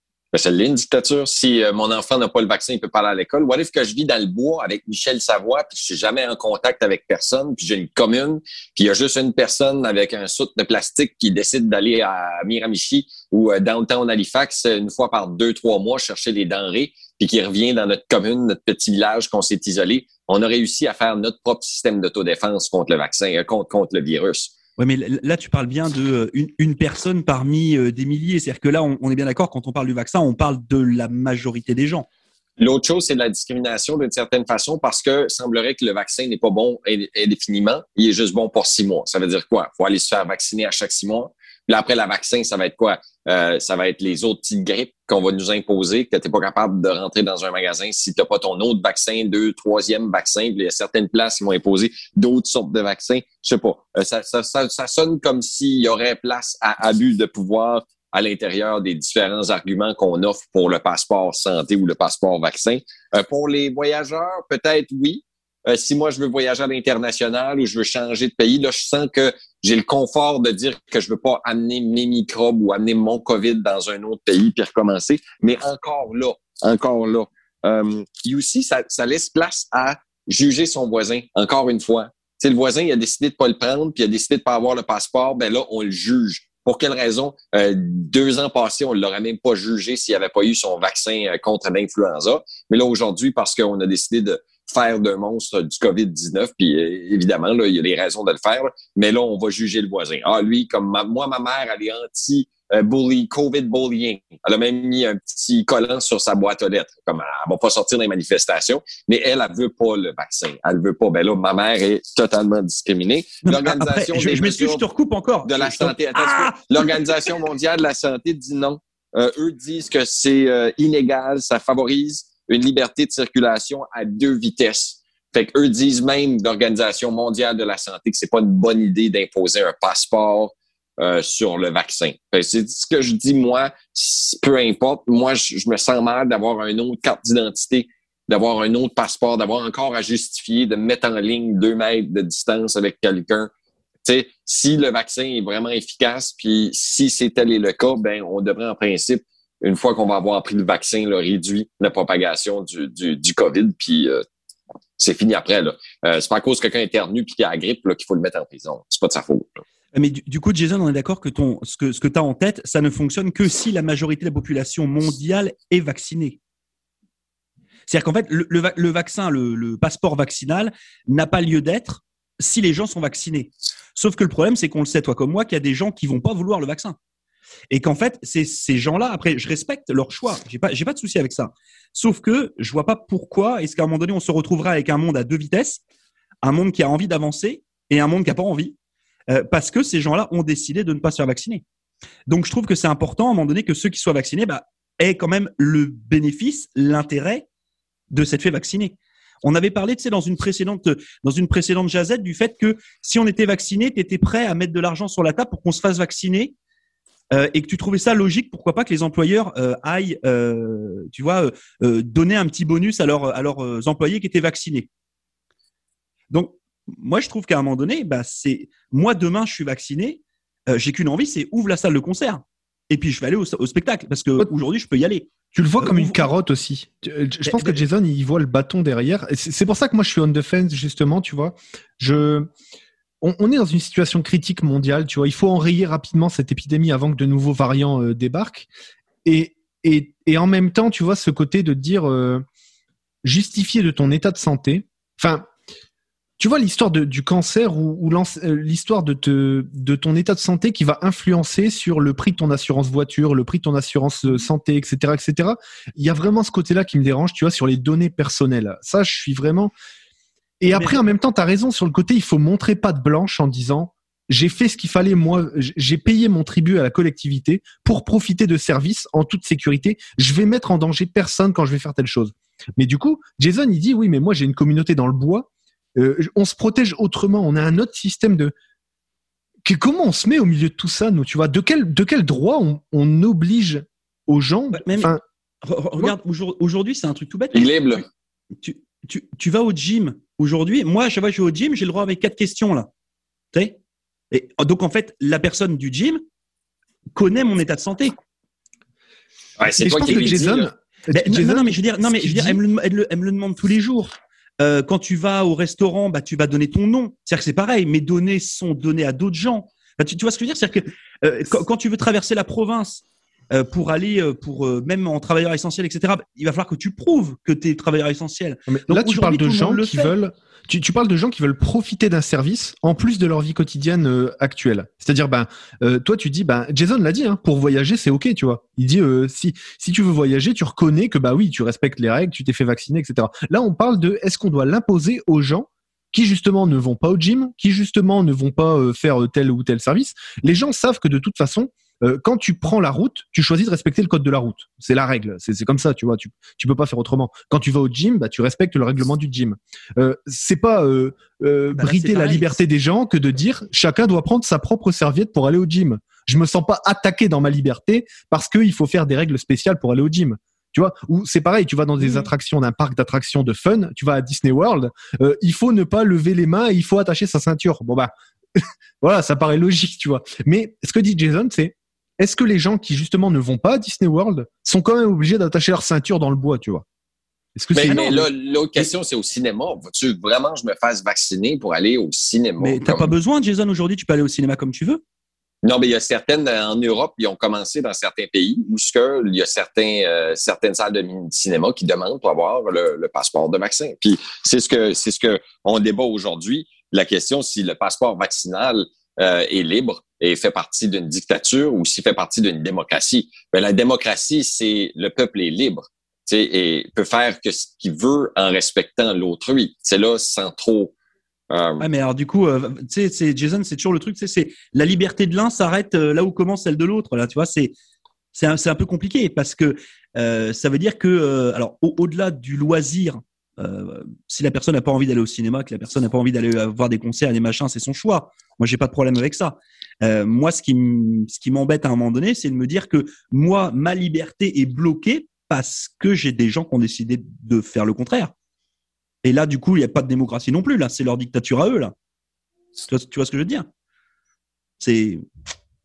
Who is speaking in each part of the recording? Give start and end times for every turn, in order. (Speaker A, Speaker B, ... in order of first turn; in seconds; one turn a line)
Speaker A: 0.3-24.5
Speaker B: 24.8-32.1
Speaker A: 32.6-114.8
Speaker B: 113.4-117.4
Speaker A: 115.4-143.5
Speaker A: 144.0-154.2
Speaker A: 155.0-159.6
Speaker B: 159.9-166.4
Speaker B: 167.9-177.0
Speaker B: 177.7-185.8
Speaker B: 186.4-188.8
Speaker B: 189.3-191.6
Speaker B: 192.3-197.4
Speaker B: 198.1-206.5
Speaker B: 207.3-214.9
Speaker B: 216.3-226.2
Speaker C: 225.5-232.5
Speaker B: 227.4-227.8
Speaker C: 233.2-238.7
Speaker C: 239.2-242.4
Speaker C: 243.2-245.5
Speaker C: 246.4-259.7
Speaker C: 260.6-278.5
Speaker B: 260.7-261.0
Speaker C: 279.6-285.2
Speaker B: 284.7-288.0
Speaker A: 287.5-288.0
Speaker B: 288.6-292.9
Speaker B: 294.3-296.2
Speaker B: 297.1-298.1
Speaker A: 299.6-300.7
Speaker C: 299.8-302.6
Speaker B: 301.1-320.1
Speaker C: 318.7-376.8
Speaker B: 351.7-352.6
Speaker B: 362.0-362.3
Speaker C: 377.5-378.3
Speaker A: 377.7-383.1
Speaker B: 382.6-385.0
Speaker A: 385.6-410.9
Speaker A: 411.5-411.8
Speaker B: 411.8-417.7
Speaker B: 418.3-438.3
Speaker B: 439.2-441.9
Speaker B: 442.9-443.6
Speaker B: 444.8-445.2